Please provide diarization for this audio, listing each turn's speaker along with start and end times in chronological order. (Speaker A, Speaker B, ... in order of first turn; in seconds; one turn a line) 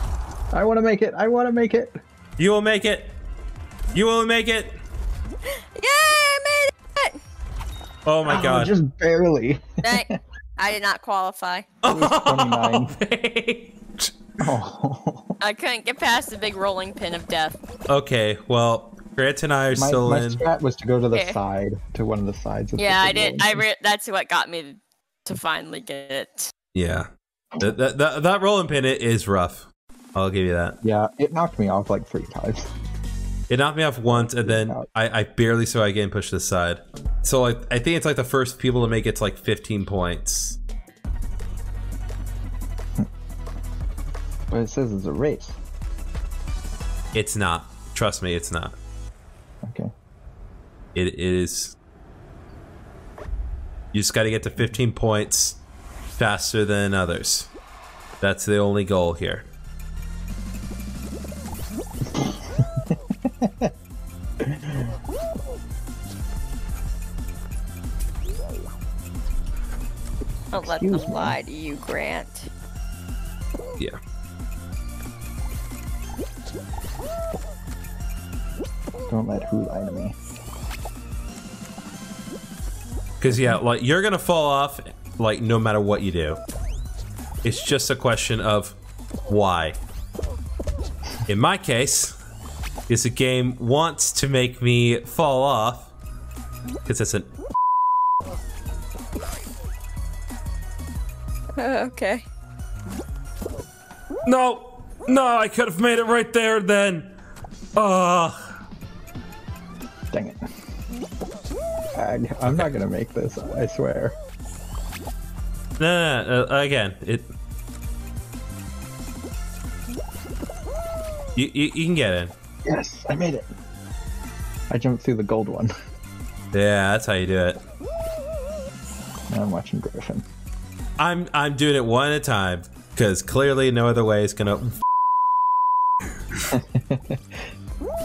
Speaker A: 0.5-2.0
Speaker B: 2.4-3.1
Speaker B: 3.9-4.7
Speaker C: 5.7-7.2
Speaker B: 8.1-8.7
Speaker A: 8.2-10.1
Speaker C: 9.8-11.7
Speaker B: 11.8-14.2
Speaker A: 11.9-12.9
Speaker A: 14.4-15.4
Speaker C: 15.4-17.6
Speaker B: 17.9-20.4
Speaker A: 19.7-23.6
Speaker C: 22.8-26.5
Speaker B: 26.7-30.8
Speaker A: 30.8-32.6
Speaker B: 33.5-40.6
Speaker A: 34.1-34.9
Speaker A: 44.5-45.6
Speaker B: 47.1-48.8
Speaker A: 49.6-49.9
Speaker B: 50.9-51.8
Speaker B: 53.9-55.6
Speaker B: 56.2-57.5
Speaker B: 58.2-59.5
Speaker A: 62.1-63.7
Speaker A: 64.4-64.9
Speaker C: 70.5-72.5
Speaker A: 70.6-71.4
Speaker A: 79.1-80.2
Speaker B: 83.2-86.4
Speaker A: 83.3-83.6
Speaker B: 87.4-89.8
Speaker B: 91.3-92.2
Speaker B: 92.9-95.9
Speaker B: 96.8-97.3
Speaker C: 101.6-102.2
Speaker B: 104.2-107.1
Speaker B: 107.8-108.5
Speaker A: 110.1-110.4
Speaker A: 111.9-114.2
Speaker B: 112.4-112.7
Speaker B: 115.8-117.3
Speaker B: 121.3-122.3
Speaker A: 122.6-123.5
Speaker A: 124.7-125.7
Speaker B: 126.5-127.6
Speaker A: 129.3-130.2
Speaker B: 131.0-134.8
Speaker A: 136.5-137.5